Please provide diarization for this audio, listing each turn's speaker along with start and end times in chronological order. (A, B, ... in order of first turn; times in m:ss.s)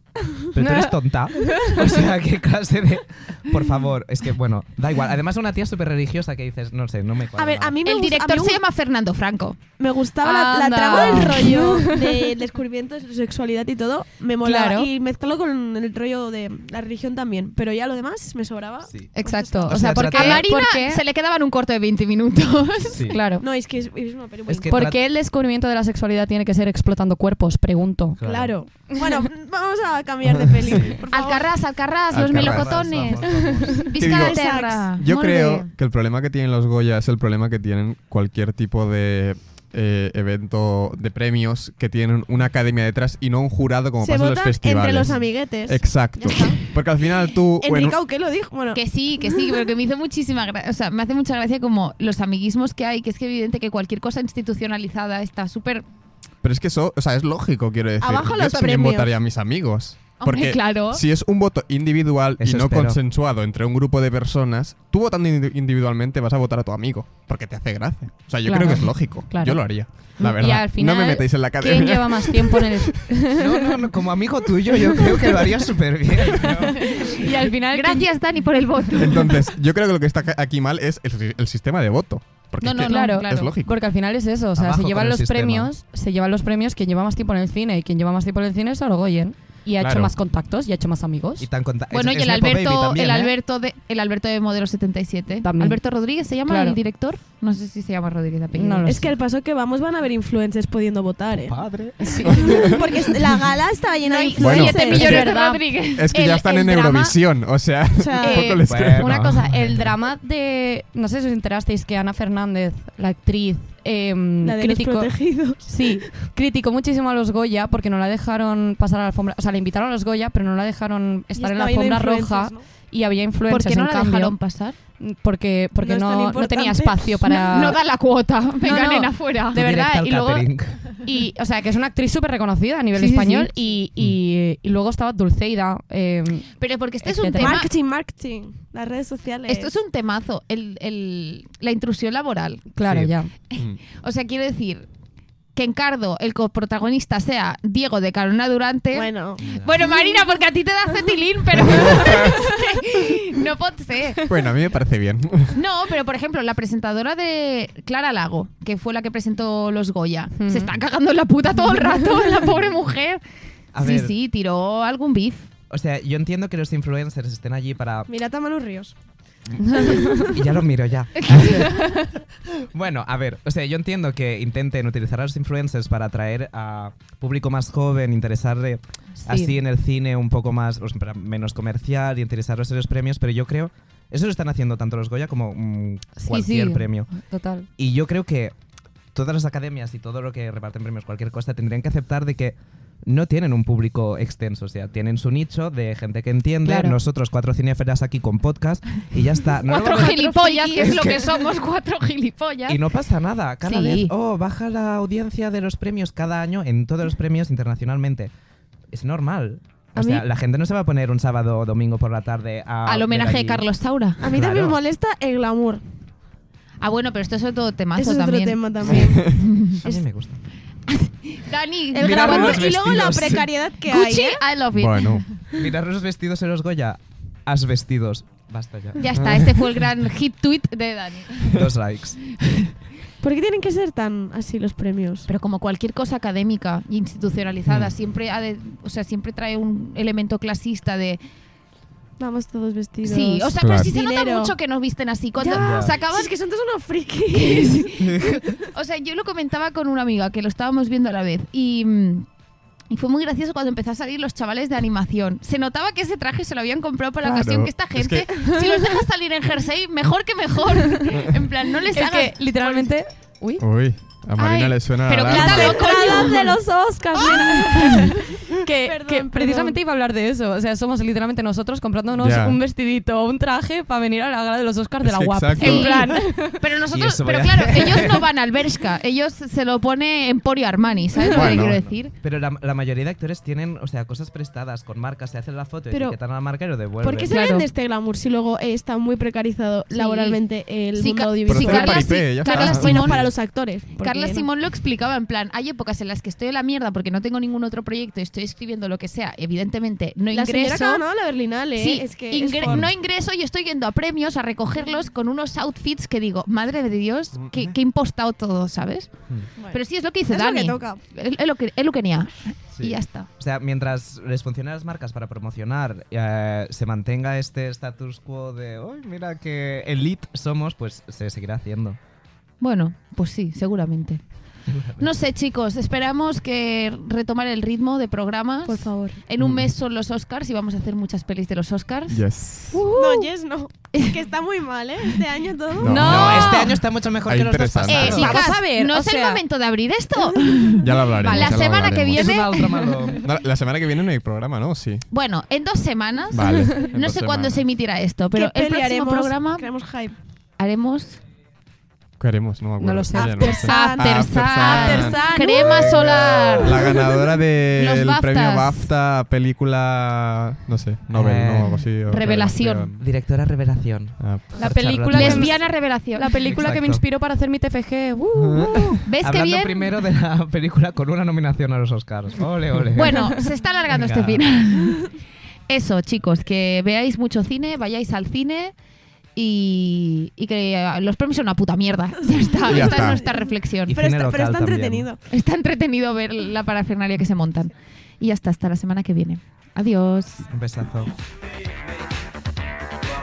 0:00.4-0:07.8 A
0:00.4-0:01.8 B
0:07.4-0:08.6 B
0:07.8-0:09.7 C
0:09.7-0:19.7 B
0:10.2-0:12.3 D
0:14.4-0:14.9 D
0:19.2-0:21.0 D
0:19.2-0:23.2 C
0:19.7-0:20.5 A
0:22.9-0:23.2 A
0:23.1-0:23.5 D
0:23.4-0:24.8 B
0:24.5-0:25.0 A
0:24.7-0:28.2 D
0:28.2-0:28.6 A
0:28.2-0:31.5 B
0:29.0-0:29.3 D
0:30.6-0:31.0 A
0:31.1-0:35.7 C
0:32.1-0:33.0 E
0:32.1-0:33.9 A
0:33.3-0:33.8 D
0:34.0-0:34.9 B
0:34.0-0:48.0 E
0:44.0-0:46.7 B
0:47.6-0:49.6 B
0:48.7-0:55.8 C
0:56.4-1:13.0 E
0:58.0-0:59.1 B
1:00.2-1:01.0 C
1:02.4-1:03.0 A
1:08.4-1:13.8 D
1:13.3-1:17.3 A
1:16.8-1:18.1 D
1:16.9-1:17.2 C
1:17.7-1:19.4 C
1:19.0-1:23.7 E
1:22.6-1:23.5 C
1:22.8-1:31.5 D
1:24.6-1:25.7 A
1:29.8-1:30.1 E
1:31.4-1:33.4 A
1:31.9-1:39.0 C
1:35.4-1:35.8 D
1:36.5-1:36.8 D
1:38.6-1:39.1 D
1:38.8-1:41.6 B
1:41.3-1:42.1 A
1:42.0-1:42.8 D
1:42.4-1:42.7 E
1:42.5-1:45.5 B
1:44.1-1:47.2 C
1:44.4-1:45.3 E
1:44.7-1:45.6 D
1:45.9-1:49.3 E
1:47.9-1:48.5 B
1:48.2-1:48.6 C
1:48.4-2:04.4 D
1:48.6-1:49.9 A
1:54.4-1:56.1 B
2:01.4-2:02.7 B
2:03.5-2:04.8 C
2:05.0-2:07.8 D
2:05.8-2:07.8 B
2:07.5-2:09.6 C
2:08.6-2:10.5 D
2:09.5-2:10.9 A
2:11.0-2:17.6 D
2:13.0-2:13.5 C
2:16.6-2:17.7 C
2:17.4-2:19.7 B
2:19.5-2:22.7 C
2:22.7-2:23.3 D
2:22.8-2:23.8 E
2:23.5-2:24.9 C
2:25.5-2:34.4 C
2:28.9-2:29.4 B
2:29.4-2:29.9 A
2:31.6-2:32.4 E
2:34.3-2:35.6 E
2:35.5-2:43.2 C
2:40.4-2:40.7 D
2:43.7-2:44.2 A
2:43.8-2:45.5 C
2:45.7-2:48.1 A
2:48.1-2:49.0 B
2:49.5-2:52.0 A
2:49.6-2:50.3 D
2:50.0-2:50.4 B
2:51.2-2:52.1 C
2:52.6-3:07.2 A
2:59.2-2:59.6 D
3:06.2-3:07.7 D
3:07.8-3:08.5 A
3:09.1-3:21.3 A
3:16.6-3:17.0 D
3:19.6-3:22.8 C
3:20.1-3:21.1 B
3:22.7-3:28.3 A
3:23.6-3:24.1 C
3:28.9-3:33.7 A
3:30.0-3:30.2 B
3:32.8-3:34.3 C
3:34.2-3:35.8 B
3:34.3-3:34.8 A
3:36.8-3:39.8 C
3:38.0-3:40.0 B
3:39.0-3:39.3 E
3:39.7-3:40.4 A
3:40.9-3:42.7 C
3:41.9-3:44.4 B
3:42.0-3:43.5 A
3:43.9-3:45.4 C
3:44.7-3:45.3 E
3:45.5-3:49.1 A
3:49.0-3:51.7 C
3:49.1-3:49.6 E
3:51.5-3:52.4 A
3:53.2-3:55.3 B
3:55.3-4:01.2 C
4:02.2-4:04.6 B
4:03.0-4:06.3 C
4:03.6-4:03.9 E
4:05.4-4:08.6 B
4:05.6-4:06.0 A
4:07.3-4:12.3 C
4:12.9-4:22.9 C
4:17.2-4:18.5 E
4:18.4-4:18.6 B
4:21.9-4:23.6 D
4:23.6-4:25.9 E
4:24.4-4:26.6 C
4:25.2-4:26.6 B
4:25.7-4:36.6 D
4:27.2-4:28.1 C
4:27.2-4:29.8 B
4:32.2-4:32.6 E
4:35.0-4:36.0 E
4:35.6-4:42.1 C
4:35.8-4:36.2 B
4:36.9-4:38.3 A
4:41.3-4:41.8 E
4:41.6-4:47.3 A
4:45.9-4:46.2 B
4:47.0-4:54.5 B
4:47.3-4:47.7 C
4:49.9-4:50.4 C
4:50.9-4:53.4 C
4:51.5-4:53.2 E
4:54.0-5:01.0 C
5:00.3-5:02.8 B
5:01.8-5:09.1 C
5:07.4-5:07.7 E
5:09.6-5:11.0 B
5:09.7-5:13.3 C
5:12.8-5:22.0 A
5:22.6-5:24.2 C
5:24.7-5:25.1 A
5:25.0-5:33.3 C
5:28.7-5:29.2 B
5:29.4-5:29.7 E
5:32.1-5:32.8 E
5:32.9-5:36.3 B
5:33.9-5:34.2 C
5:35.8-5:36.7 E
5:35.9-5:36.8 D
5:36.0-5:36.8 C
5:36.0-5:38.5 A
5:37.2-5:38.4 E
5:37.8-5:42.9 C
5:38.0-5:39.4 D
5:40.3-5:40.6 B
5:40.8-5:42.4 E
5:42.1-5:43.2 A
5:43.2-5:45.0 E
5:45.1-5:49.8 C
5:46.3-5:47.6 E
5:48.3-5:50.2 B
5:50.6-5:51.2 C
5:52.2-6:03.0 E
5:52.8-5:53.6 D
5:53.1-5:56.0 B
5:53.6-5:57.2 C
5:57.7-5:58.8 C
6:01.1-6:05.7 A
6:02.1-6:03.0 C
6:04.2-6:04.5 E
6:04.6-6:09.0 D
6:05.1-6:06.4 C
6:06.4-6:07.0 A
6:08.4-6:09.0 E
6:09.0-6:09.9 C
6:09.2-6:14.4 A
6:13.0-6:15.0 C
6:15.7-6:18.8 C
6:19.4-6:23.9 C
6:22.3-6:25.2 B
6:22.6-6:23.2 E
6:23.9-6:25.1 A
6:25.3-6:30.5 C
6:30.5-6:31.1 A